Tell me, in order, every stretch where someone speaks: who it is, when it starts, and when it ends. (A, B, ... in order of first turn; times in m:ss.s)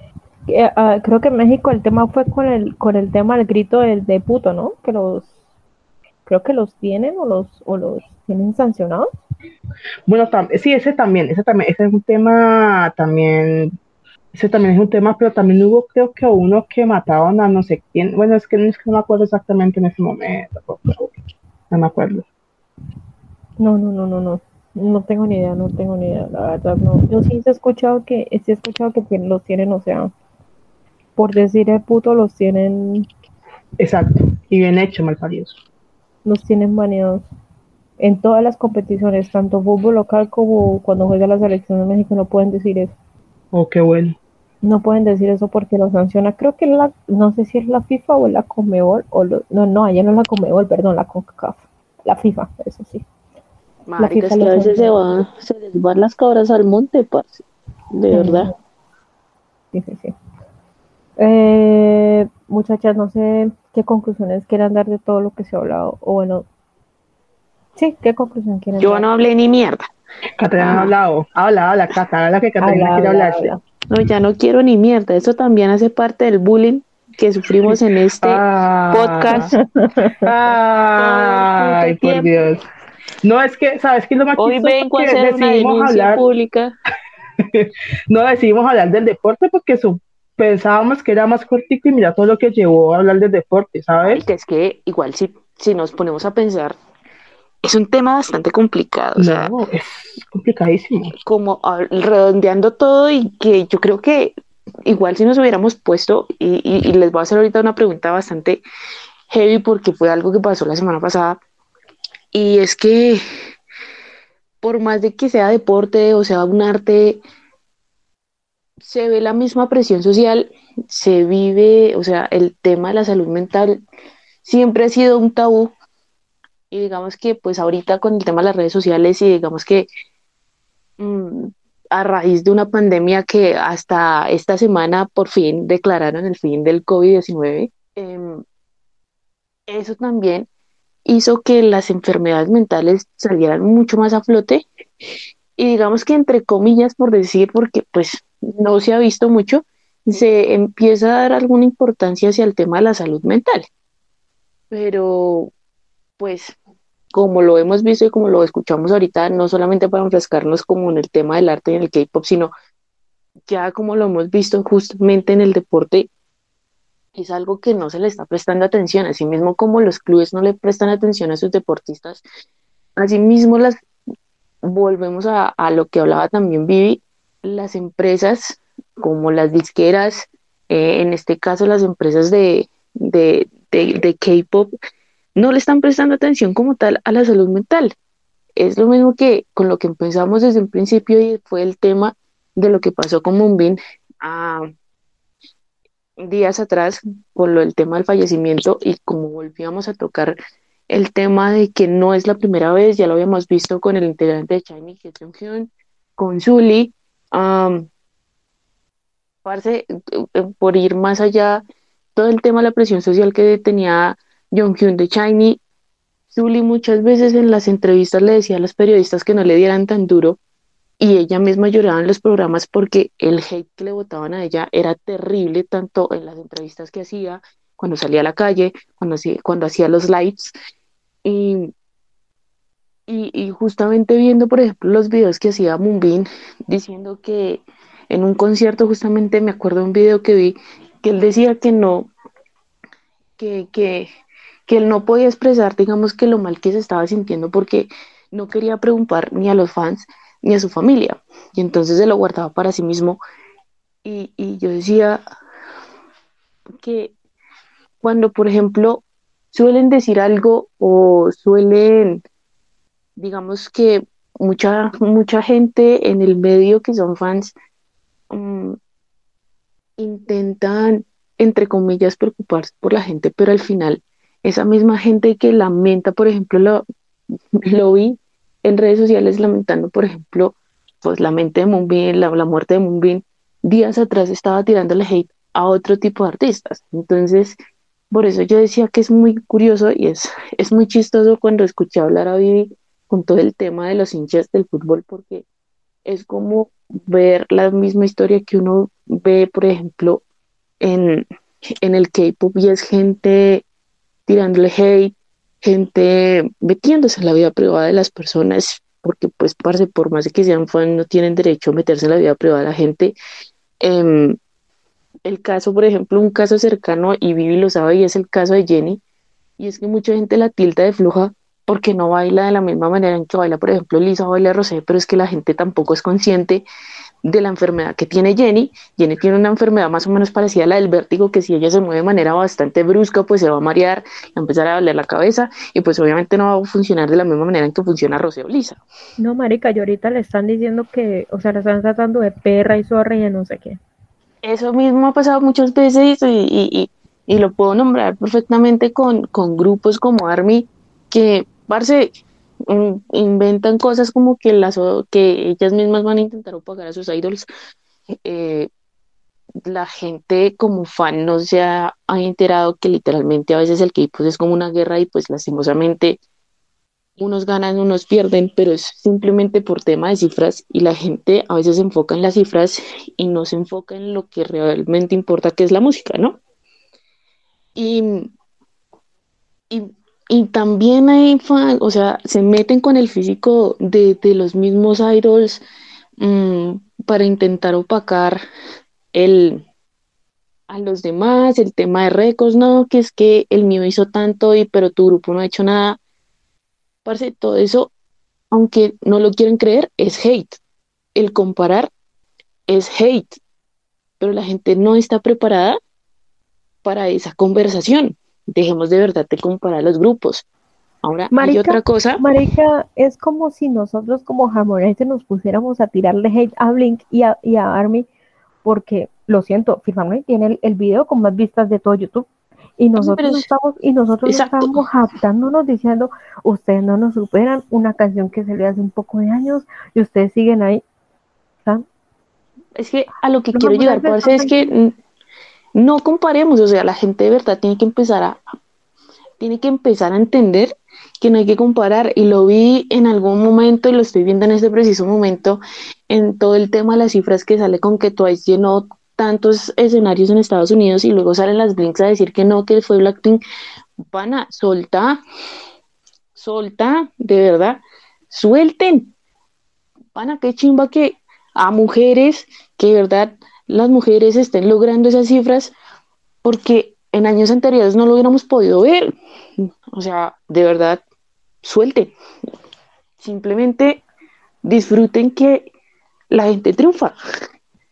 0:00.5-0:05.3 A
0:06.2-0:09.1 A
0:10.1-0:13.7 B
0:14.3-0:21.1 B
0:21.7-0:22.2 B
0:23.6-0:30.1 A
0:31.2-0:33.1 A
0:33.8-0:35.6 B
0:36.2-0:37.2 A
0:38.0-0:42.9 A
0:43.5-0:44.2 B
0:44.6-0:53.0 A
0:53.9-0:58.5 C
0:54.0-0:54.9 A
0:58.1-0:58.5 A
0:59.7-1:00.1 A
1:01.2-1:06.4 A
1:07.8-1:09.0 A
1:08.8-1:09.8 C
1:10.4-1:13.5 B
1:10.6-1:10.9 C
1:12.6-1:13.6 A
1:13.9-1:19.5 C
1:17.5-1:19.5 B
1:19.3-1:20.3 A
1:20.2-1:22.6 B
1:21.0-1:22.4 C
1:23.2-1:26.2 B
1:24.4-1:26.7 C
1:27.4-1:34.2 B
1:34.0-1:36.8 C
1:37.6-1:39.5 C
1:39.2-1:41.1 B
1:41.2-1:44.3 C
1:44.8-1:48.6 C
1:49.3-1:51.4 C
1:52.3-1:53.2 C
1:54.6-1:57.2 C
1:58.8-2:03.8 C
2:04.4-2:05.7 C
2:06.7-2:09.9 C
2:11.0-2:18.4 C
2:19.7-2:20.5 C
2:21.0-2:24.6 C
2:25.6-2:33.7 C
2:34.7-2:35.5 C
2:36.2-2:36.5 C
2:37.1-2:42.5 C
2:43.5-2:46.1 C
2:47.1-2:52.2 C
2:53.0-2:53.8 C
2:54.6-3:04.7 C
3:05.4-3:08.0 C
3:08.6-3:14.7 C
3:16.2-3:20.4 C
3:20.9-3:27.9 C
3:29.4-3:31.6 C
3:32.1-3:35.6 C
3:36.3-3:40.4 C
3:41.0-3:50.5 C
3:51.2-3:51.7 C
3:53.1-4:02.1 C
4:03.4-4:04.1 C
4:04.7-4:13.2 C
4:14.0-4:15.2 C
4:16.8-4:17.1 C
4:18.0-4:22.2 C
4:23.2-4:27.6 C
4:28.3-4:28.8 C
4:30.0-4:36.8 C
4:37.6-4:47.6 C
4:48.1-4:55.4 C
4:56.0-5:00.2 C
5:00.8-5:01.2 C
5:01.8-5:03.6 C
5:04.3-5:13.1 C
5:13.8-5:14.4 C
5:15.2-5:19.0 C
5:19.6-5:26.6 C
5:27.3-5:38.8 C
5:39.2-5:43.8 A
5:44.4-5:52.1 C
5:52.7-5:57.5 C
5:58.2-5:58.7 C
5:59.6-6:06.2 C
6:07.2-6:16.4 C
6:17.8-6:18.3 C
6:19.7-6:25.6 C
6:26.2-6:28.4 C
6:29.1-6:29.6 C
6:30.7-6:36.0 C
6:37.0-6:37.9 C
6:38.5-6:40.6 C
6:41.1-6:41.9 C
6:42.7-6:43.4 C
6:44.2-6:45.8 C
6:46.8-6:50.4 C
6:51.0-6:52.2 C
6:51.3-6:58.1 A
6:58.6-7:10.8 A
7:03.0-7:03.4 C
7:04.2-7:04.8 C
7:12.8-7:14.9 C
7:13.5-7:14.7 A
7:15.7-7:18.4 C
7:19.4-7:33.4 C
7:34.1-7:35.2 C
7:36.4-7:39.1 C
7:40.1-7:45.7 C
7:46.4-7:51.0 C
7:51.6-7:52.1 C
7:53.2-7:54.0 C
7:54.6-7:55.7 C
7:56.3-7:57.1 C